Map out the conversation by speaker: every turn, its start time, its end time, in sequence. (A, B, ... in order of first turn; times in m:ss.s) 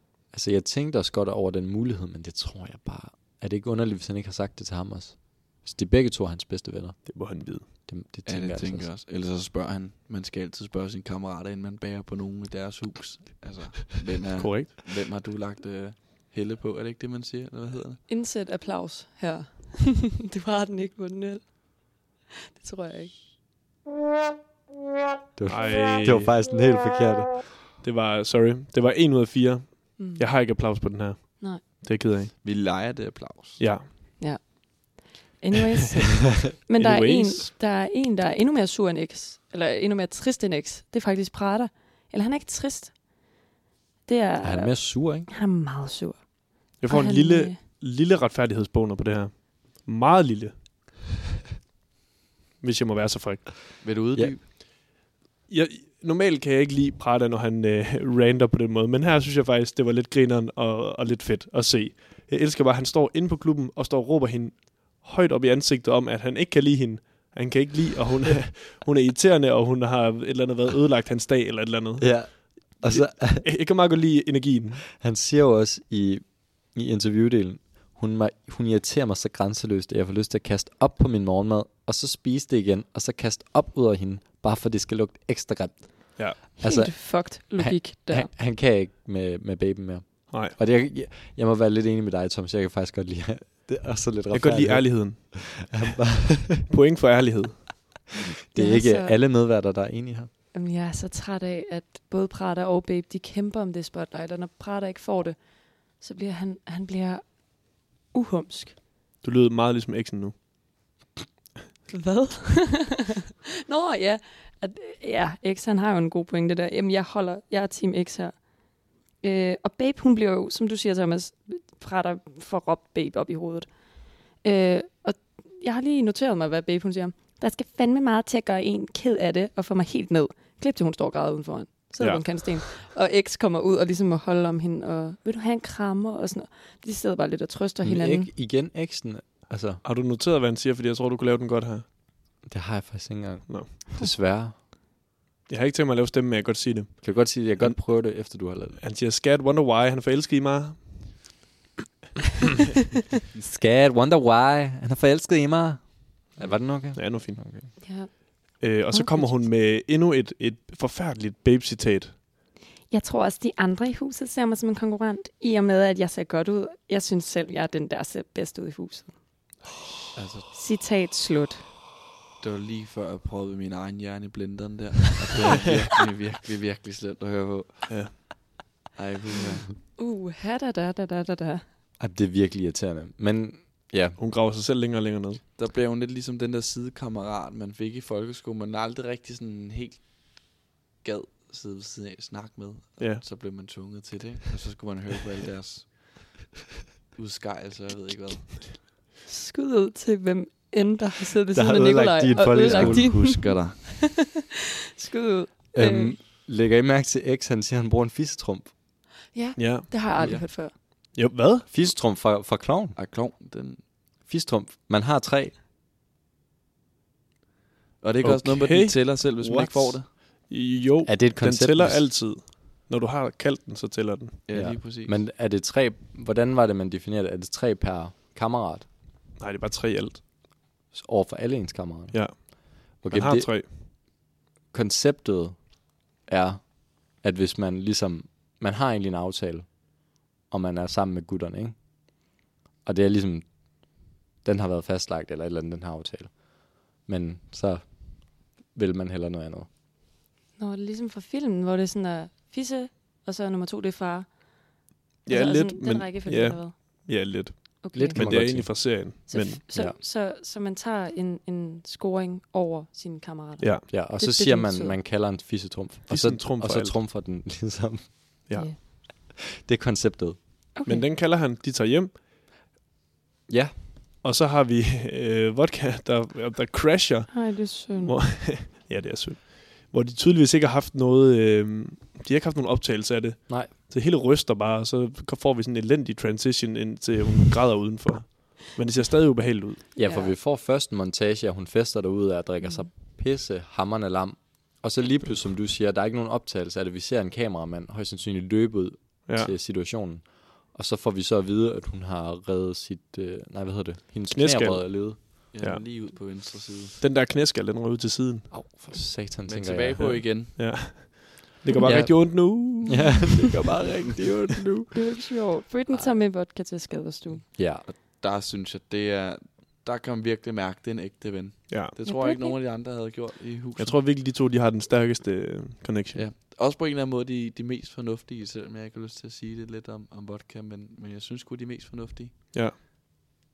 0:00.3-0:08.9 A
0:07.1-0:07.7 B
0:08.2-0:18.0 C
0:14.4-0:14.8 B
0:18.1-0:23.1 D
0:25.4-0:27.4 A
0:25.5-0:26.4 B
0:27.8-0:32.3 B
0:30.0-0:30.4 D
0:32.4-0:33.6 C
0:33.6-0:33.9 B
0:34.2-0:43.0 D
0:36.8-0:37.5 B
0:44.1-0:47.6 D
0:44.4-0:45.3 A
0:46.8-0:50.8 B
0:52.6-0:53.5 B
0:53.8-0:54.4 C
0:55.5-1:14.9 B
1:12.0-1:13.5 A
1:15.0-1:36.7 A
1:26.6-1:28.3 D
1:30.3-1:30.6 B
1:34.3-1:35.5 B
1:36.7-1:37.9 B
1:38.5-1:40.3 A
1:38.6-1:39.2 D
1:40.5-1:48.8 D
1:49.2-1:50.4 B
1:51.9-1:53.0 D
1:53.7-2:03.8 D
2:04.4-2:18.3 D
2:12.0-2:12.6 B
2:17.8-2:19.8 A
2:19.8-2:21.8 B
2:22.4-2:24.6 A
2:25.5-2:27.9 B
2:27.0-2:28.8 A
2:28.8-2:31.2 B
2:33.4-2:37.7 A
2:36.9-2:37.4 B
2:37.8-2:39.4 D
2:38.6-2:42.2 B
2:42.9-2:49.2 D
2:50.2-2:50.5 C
2:50.5-2:51.7 D
2:52.4-2:58.2 C
2:57.9-2:58.1 B
2:58.9-2:59.7 C
3:00.0-3:01.6 D
3:02.0-3:04.2 A
3:04.2-3:05.4 B
3:05.6-3:16.4 C
3:13.0-3:13.2 B
3:17.2-3:18.8 C
3:19.3-3:24.4 D
3:21.5-3:23.3 A
3:22.6-3:23.8 C
3:25.0-3:26.2 D
3:25.7-3:28.7 A
3:29.3-3:30.7 D
3:29.6-3:30.4 B
3:30.2-3:30.4 C
3:31.1-3:31.7 B
3:31.7-3:33.0 A
3:33.0-3:33.8 C
3:34.2-3:35.6 A
3:38.0-3:40.1 C
3:38.2-3:44.4 B
3:41.1-3:42.1 A
3:44.5-3:45.2 C
3:44.5-3:48.9 A
3:49.4-3:50.2 B
3:50.9-3:53.5 A
3:52.1-3:53.7 B
3:54.7-4:02.3 A
4:02.8-4:09.7 A
4:10.6-4:14.5 D
4:15.2-4:19.6 B
4:15.3-4:17.1 D
4:17.8-4:25.0 D
4:17.9-4:19.0 A
4:23.6-4:23.8 B
4:23.9-4:28.4 A
4:26.1-4:27.0 B
4:29.5-4:30.6 A
4:30.8-4:31.1 D
4:30.9-4:32.1 B
4:33.5-4:33.8 A
4:34.2-4:49.8 B
4:37.3-4:38.1 D
4:50.0-5:05.2 A
4:50.0-4:50.3 D
4:52.6-4:52.9 D
5:04.3-5:05.8 B
5:05.5-5:07.0 C
5:07.0-5:08.5 B
5:08.5-5:10.2 A
5:09.5-5:10.6 C
5:10.0-5:13.5 B
5:11.7-5:12.0 D
5:11.8-5:13.7 A
5:13.5-5:14.9 C
5:14.9-5:17.4 D
5:17.6-5:17.9 A
5:17.9-5:24.0 C
5:21.7-5:21.9 B
5:22.1-5:22.6 D
5:23.8-5:26.2 B
5:26.1-5:32.3 C